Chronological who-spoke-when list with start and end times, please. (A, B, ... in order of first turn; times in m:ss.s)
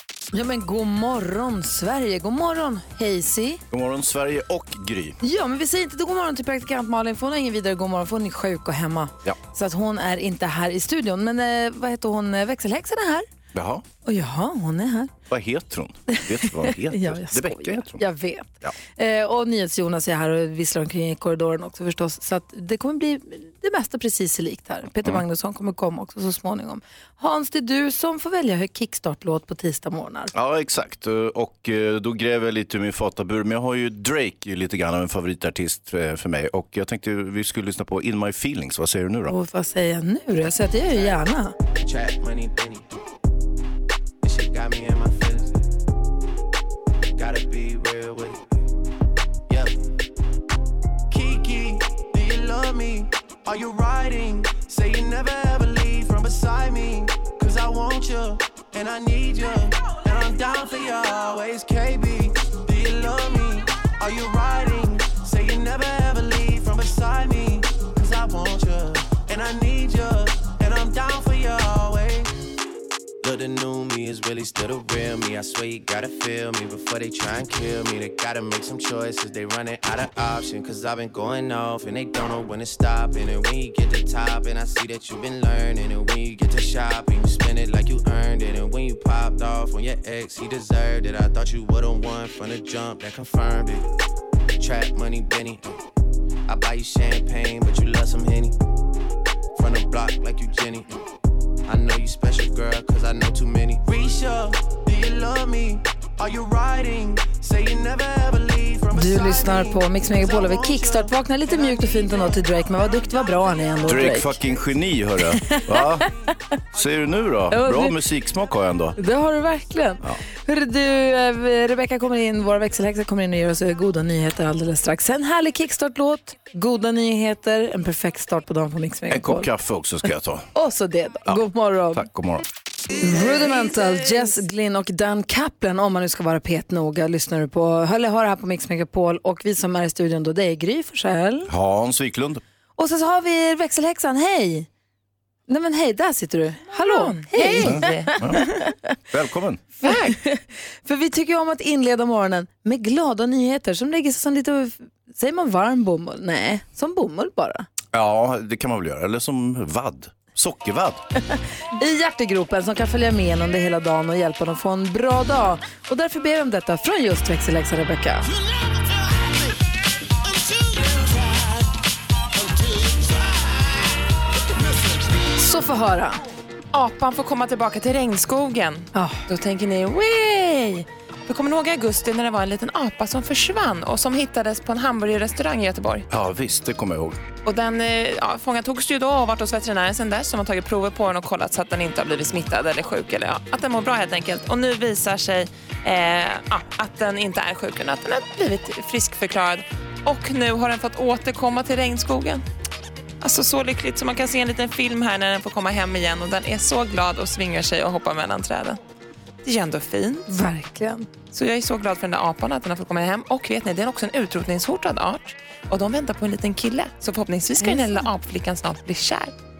0:00.3-0:03.6 A
0:03.7-0:05.2 B
0:05.2-0:13.3 A
0:13.5-0:13.8 B
0:14.0-0:15.1 A
0:15.3-0:18.0 B
0:16.1-0:30.3 A
0:30.3-0:39.3 B
0:39.3-0:41.5 A
0:40.9-0:41.2 C
0:41.8-0:43.0 C
0:44.2-0:45.6 C
0:47.2-0:48.4 C
0:49.5-0:49.7 C
0:51.1-1:12.3 C
1:13.2-1:33.9 C
1:34.6-1:35.8 C
1:36.5-1:38.6 C
1:39.6-1:41.0 C
1:41.7-1:52.4 C
1:48.9-1:54.4 A
1:53.8-1:56.1 B
1:56.7-1:59.0 B
1:57.5-1:58.0 A
1:59.0-2:09.5 A
2:09.1-2:10.4 B
2:10.5-2:12.1 A
2:11.9-2:12.4 B
2:13.0-2:21.5 A
2:21.5-2:22.4 B
2:22.8-2:24.7 A
2:25.5-2:28.6 A
2:26.8-2:28.2 D
2:27.6-2:28.5 B
2:29.1-2:29.6 B
2:29.8-2:30.2 D
2:29.8-2:37.7 A
2:37.9-2:41.0 B
2:41.3-2:48.3 A
2:55.4-2:56.2 A
2:56.7-3:06.0 D
2:58.9-2:59.2 A
3:06.1-3:07.2 B
3:07.4-3:22.4 D
3:23.2-3:28.8 D
3:29.4-3:30.4 D
3:30.3-3:31.1 A
3:31.3-3:39.3 D